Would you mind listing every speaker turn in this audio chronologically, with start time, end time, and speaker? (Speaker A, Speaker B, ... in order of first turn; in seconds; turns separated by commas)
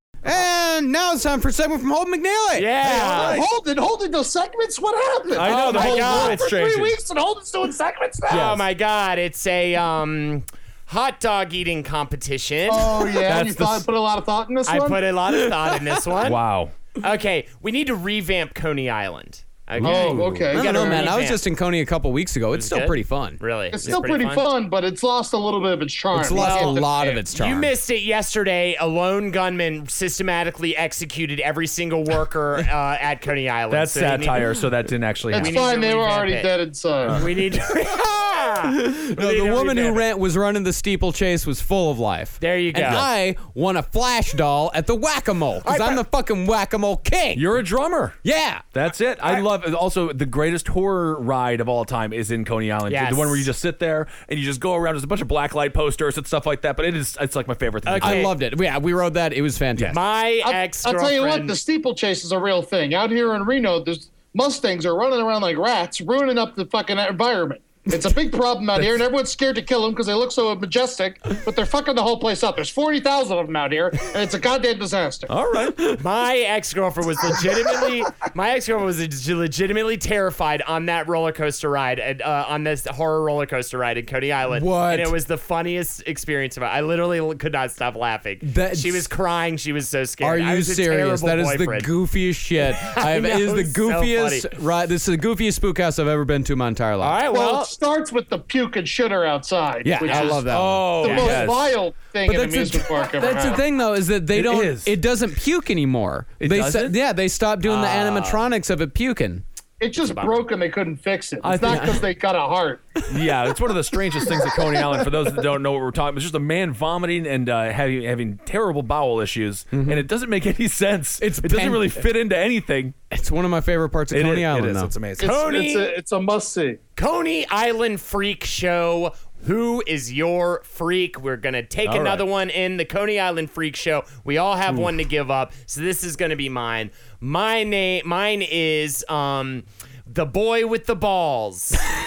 Speaker A: 0.2-2.7, Speaker B: 2.5-3.4, Speaker C: 2.8-3.5, Speaker D: 2.9-8.6, Speaker C: 5.3-7.0, Speaker B: 5.4-6.4, Speaker B: 8.3-13.1, Speaker D: 12.7-15.0, Speaker C: 13.2-13.9, Speaker B: 14.7-16.4, Speaker C: 16.2-16.7, Speaker B: 17.0-21.4, Speaker C: 19.8-20.4, Speaker D: 19.8-21.1, Speaker A: 20.5-23.4, Speaker B: 22.5-24.4, Speaker D: 23.7-26.9, Speaker A: 26.1-27.7, Speaker B: 26.2-34.5, Speaker C: 33.7-35.5, Speaker D: 35.3-37.3, Speaker B: 35.4-36.5, Speaker B: 37.1-40.0, Speaker A: 38.7-47.4, Speaker B: 42.4-43.1, Speaker B: 45.6-46.0, Speaker C: 47.3-48.2, Speaker A: 48.2-48.6, Speaker C: 48.7-58.3, Speaker B: 52.9-53.5, Speaker B: 57.9-58.3, Speaker A: 58.0-60.0, Speaker B: 59.9-61.6, Speaker D: 60.4-75.3, Speaker C: 75.3-76.0, Speaker B: 75.9-91.9, Speaker A: 84.5-85.1, Speaker A: 88.4-89.1, Speaker A: 90.2-97.2, Speaker B: 92.6-94.5, Speaker B: 97.0-97.7, Speaker D: 97.3-103.6, Speaker A: 99.8-100.9, Speaker B: 100.0-101.4, Speaker C: 100.5-101.7, Speaker A: 102.2-109.4, Speaker C: 104.3-104.9, Speaker C: 106.4-107.0, Speaker B: 107.6-108.4, Speaker D: 109.8-113.0, Speaker B: 110.0-110.3, Speaker C: 111.4-112.0, Speaker A: 111.6-112.0, Speaker C: 113.1-122.9, Speaker A: 119.7-120.0, Speaker A: 121.2-122.0, Speaker A: 123.1-124.9, Speaker C: 124.1-125.3, Speaker B: 125.2-125.9, Speaker D: 125.2-126.8, Speaker B: 127.0-141.8, Speaker C: 131.8-132.3